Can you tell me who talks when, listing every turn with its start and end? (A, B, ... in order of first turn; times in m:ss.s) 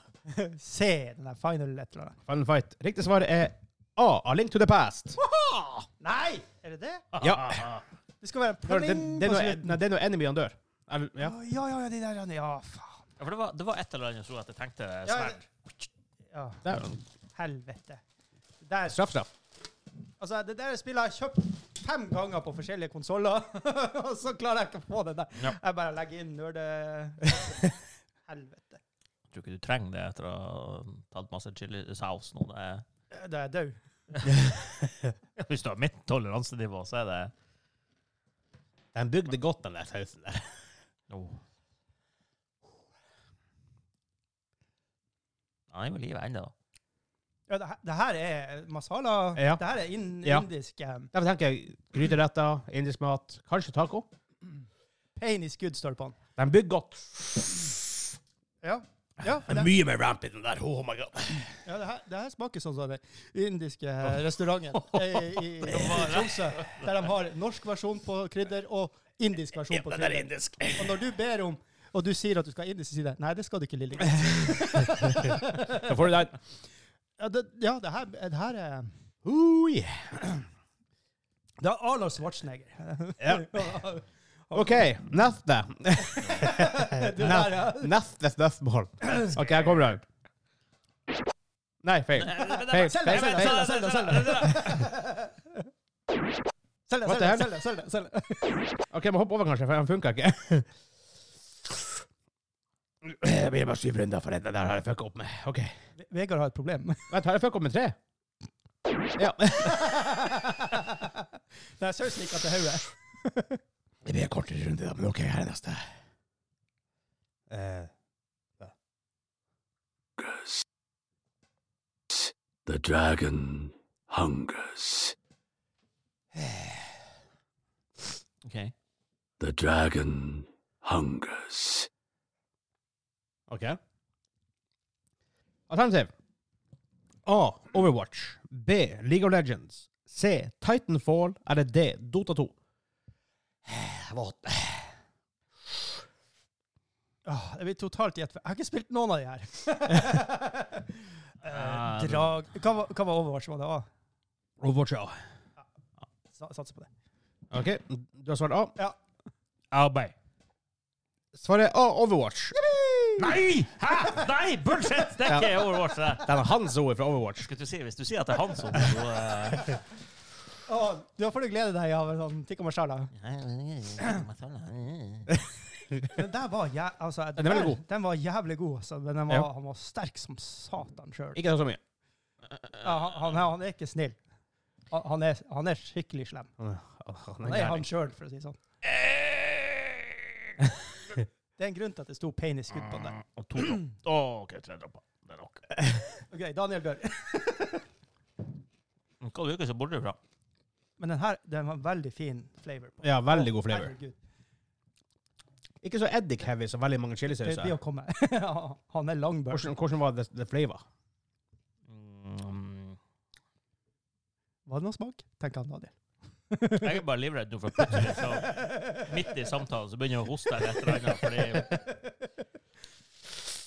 0:00.3-0:02.1 A
0:02.3-0:05.2 B
0:05.3-0:05.7 C
0:06.0-0:07.0 A
0:07.1-0:07.8 C
0:07.2-0:07.6 B
0:08.2-0:09.8 A
0:08.7-0:11.3 B
0:11.2-0:13.0 A
0:13.2-0:15.4 C
0:15.0-0:15.7 A
0:16.3-0:16.6 A
0:16.6-0:17.0 B
0:17.3-0:18.0 A
0:18.6-0:19.0 A
0:18.8-0:19.3 B
0:20.2-0:28.8 A
0:29.3-0:32.8 C
0:33.1-0:33.8 A
0:34.3-0:34.9 B
0:35.4-0:37.3 C
0:38.9-0:40.4 B
0:41.1-0:41.4 C
0:45.7-0:46.5 C
0:47.5-0:51.1 A
0:49.4-0:49.6 B
0:51.1-0:54.1 B
0:55.2-0:56.2 A
0:56.4-0:57.9 B
0:58.6-0:59.7 A
0:59.4-1:01.5 B
1:01.6-1:15.9 A
1:05.3-1:06.9 C
1:09.6-1:11.0 B
1:15.2-1:16.4 B
1:17.2-1:18.9 A
1:19.2-1:20.3 B
1:21.6-1:24.9 A
1:23.2-1:23.8 B
1:24.5-1:30.0 B
1:26.0-1:27.9 A
1:29.0-1:29.4 A
1:31.8-1:33.6 B
1:32.1-1:34.9 C
1:32.4-1:35.7 A
1:36.9-1:38.7 A
1:37.0-1:37.5 B
1:38.9-1:40.7 B
1:43.0-1:45.7 B
1:46.0-1:47.1 A
1:47.1-1:48.0 B
1:49.2-1:50.6 B
1:49.7-1:53.6 A
1:54.0-1:55.8 B
1:57.5-1:57.9 B
2:00.2-2:00.6 D
2:02.1-2:05.1 D
2:06.4-2:06.7 B
2:08.4-2:08.7 C
2:09.4-2:11.9 D
2:13.5-2:13.8 B
2:15.7-2:16.1 B
2:17.2-2:22.5 B
2:23.8-2:24.7 C
2:27.2-2:33.8 A
2:31.4-2:32.4 C
2:34.6-2:35.1 B
2:36.3-2:36.9 A
2:37.5-2:38.7 B
2:39.7-2:40.1 C
2:41.3-2:42.5 B
2:42.5-2:43.4 A
2:43.2-2:46.4 C
2:45.3-2:45.6 B
2:46.2-2:47.5 B
2:47.4-2:49.8 C
2:50.6-2:53.1 A
2:53.1-2:55.4 C
2:56.1-3:01.4 A
2:57.4-2:57.8 B
3:01.3-3:01.8 B
3:02.8-3:04.2 A
3:04.9-3:06.5 A
3:06.6-3:07.8 B
3:07.4-3:08.6 A
3:08.8-3:10.3 C
3:11.6-3:13.2 A
3:12.8-3:15.9 C
3:16.3-3:17.8 A
3:19.2-3:20.2 C
3:21.0-3:24.2 A
3:23.0-3:23.9 B
3:25.8-3:27.8 B
3:27.4-3:29.7 A
3:29.5-3:30.8 B
3:31.9-3:33.0 C
3:34.6-3:35.9 A
3:36.5-3:37.0 A
3:36.7-3:41.9 C
3:37.9-3:39.0 A
3:41.1-3:42.1 A